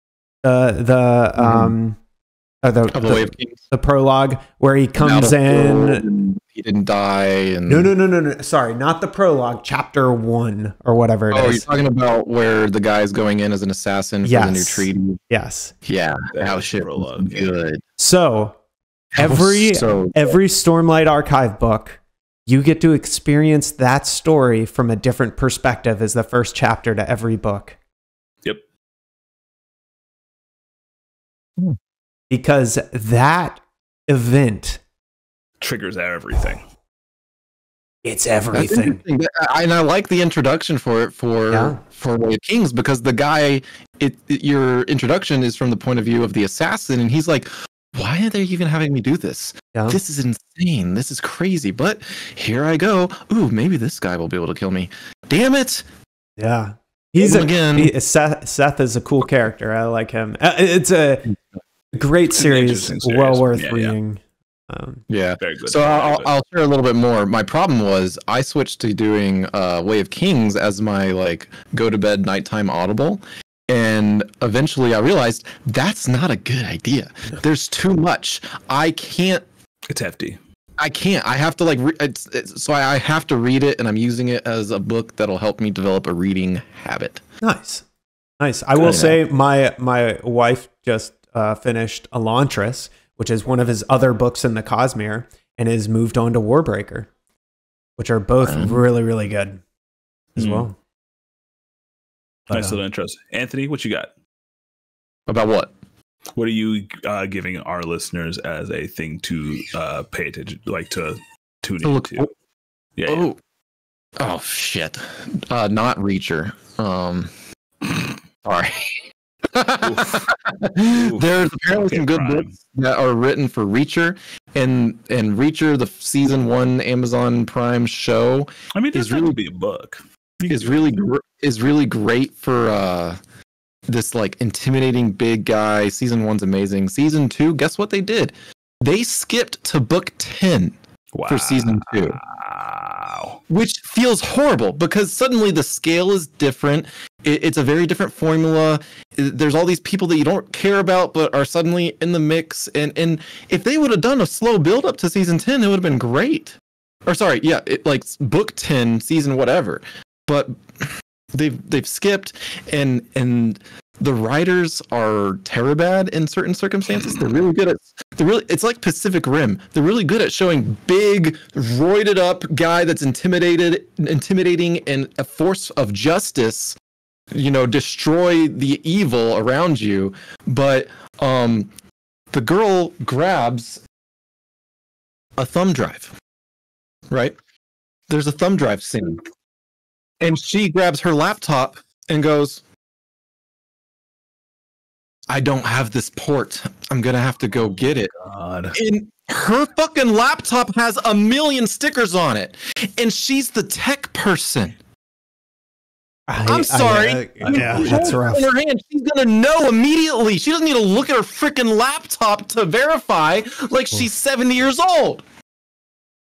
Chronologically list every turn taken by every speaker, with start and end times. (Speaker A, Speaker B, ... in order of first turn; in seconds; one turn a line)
Speaker A: 0.4-2.0
Speaker B: 1.4-1.7
Speaker A: 2.6-6.1
Speaker B: 2.9-3.6
Speaker B: 5.0-7.9
Speaker A: 7.7-11.7
Speaker B: 11.3-15.2
Speaker A: 14.2-15.7
Speaker B: 15.8-17.8
Speaker C: 16.3-17.6
Speaker A: 18.0-18.6
Speaker B: 19.1-20.4
Speaker A: 19.2-27.8
Speaker A: 32.3-34.8
Speaker C: 35.6-36.6
Speaker A: 38.0-39.0
Speaker B: 38.5-55.9
Speaker A: 41.5-41.8
Speaker A: 56.4-61.4
Speaker B: 57.2-57.9
Speaker A: 61.9-65.0
Speaker C: 62.4-64.0
Speaker B: 65.1-79.5
Speaker C: 65.4-66.3
Speaker C: 79.9-80.4
Speaker B: 80.8-87.2
Speaker A: 87.4-87.8
Speaker A: 88.4-97.1
Speaker B: 88.8-89.2
Speaker A: 98.0-99.6
Speaker B: 98.4-98.8
Speaker A: 100.4-100.8
Speaker C: 100.4-100.7
Speaker C: 102.5-104.1
Speaker A: 102.5-102.8
Speaker B: 105.3-105.7
Speaker C: 106.4-112.3
Speaker B: 111.8-112.3
Speaker C: 113.0-113.3
Speaker B: 113.1-113.4
Speaker B: 114.2-117.3
Speaker B: 117.8-129.4
Speaker C: 119.8-120.2
Speaker C: 120.8-122.5
Speaker C: 128.8-131.0
Speaker B: 130.5-133.2
Speaker B: 133.9-142.2
Speaker C: 141.2-143.4
Speaker B: 143.5-176.8
Speaker B: 177.3-181.7
Speaker B: 182.3-183.8
Speaker B: 185.4-186.2
Speaker B: 187.1-187.4
Speaker B: 188.1-189.2
Speaker B: 190.2-192.6
Speaker B: 195.3-198.1
Speaker C: 198.1-198.8
Speaker B: 198.7-204.8
Speaker A: 206.3-208.5
Speaker B: 206.4-215.2
Speaker C: 207.4-208.2